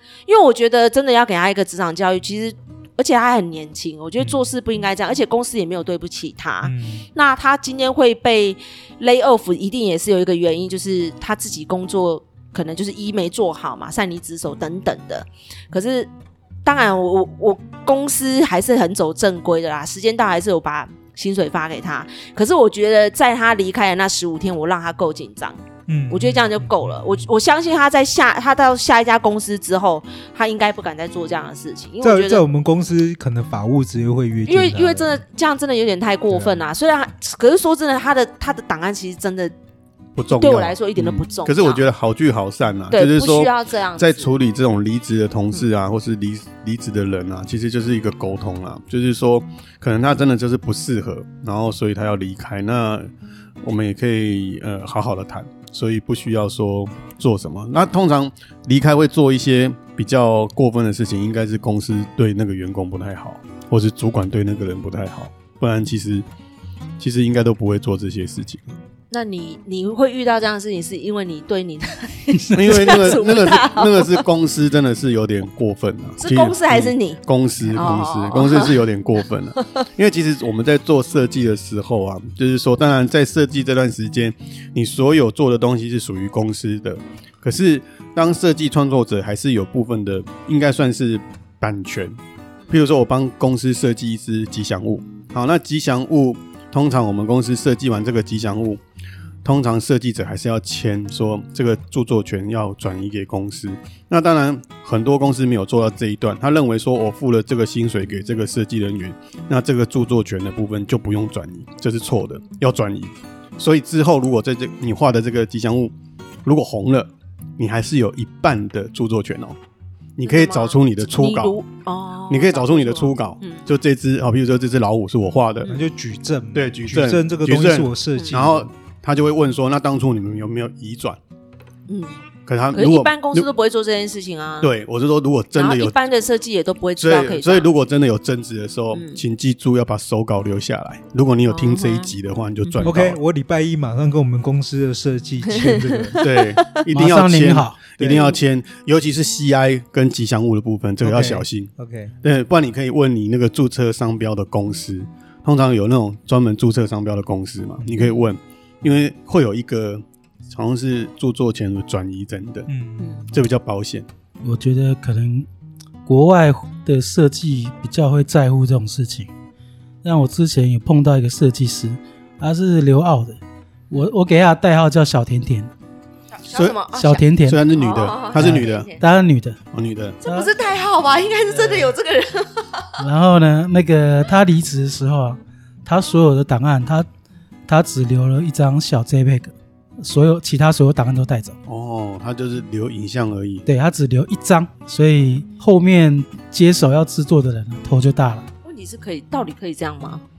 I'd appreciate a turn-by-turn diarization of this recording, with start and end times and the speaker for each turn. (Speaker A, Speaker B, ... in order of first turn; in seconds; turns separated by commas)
Speaker A: 0.2-16.1, Speaker B: 6.6-7.1, Speaker A: 16.6-32.4, Speaker B: 25.9-27.1, Speaker B: 32.0-35.2, Speaker A: 34.5-39.5, Speaker B: 36.3-36.6, Speaker C: 40.1-53.1, Speaker A: 40.3-41.9, Speaker A: 42.9-44.4, Speaker C: 53.6-66.2, Speaker C: 67.0-68.6, Speaker A: 69.1-74.2, Speaker C: 72.5-92.2, Speaker A: 76.2-78.8, Speaker C: 92.7-98.8, Speaker C: 99.4-115.9, Speaker C: 116.4-119.6, Speaker C: 120.2-121.6, Speaker A: 120.2-123.7, Speaker C: 122.3-125.7, Speaker B: 125.7-128.7, Speaker C: 126.5-131.2, Speaker A: 131.9-134.7, Speaker C: 132.4-133.5, Speaker C: 134.6-136.0, Speaker A: 135.5-137.7, Speaker C: 137.0-143.2, Speaker A: 138.9-139.2, Speaker A: 141.5-142.9, Speaker B: 142.8-146.2, Speaker A: 145.5-146.7, Speaker C: 146.2-151.7, Speaker D: 146.9-147.8, Speaker B: 148.0-148.3, Speaker B: 151.0-152.1, Speaker C: 152.2-162.7, Speaker B: 157.8-158.1, Speaker B: 162.7-163.4, Speaker A: 163.0-163.3, Speaker C: 163.3-164.1, Speaker D: 164.4-165.5, Speaker D: 166.1-169.3, Speaker D: 170.0-175.7, Speaker A: 176.3-179.0, Speaker C: 176.5-176.8, Speaker D: 176.9-177.6, Speaker C: 177.4-178.9, Speaker D: 178.3-179.6, Speaker C: 179.7-180.2, Speaker D: 180.2-180.5, Speaker A: 180.2-183.0, Speaker D: 181.5-181.9, Speaker D: 183.0-187.1, Speaker D: 187.7-191.5, Speaker C: 191.7-193.7, Speaker D: 193.7-198.5, Speaker A: 198.6-200.2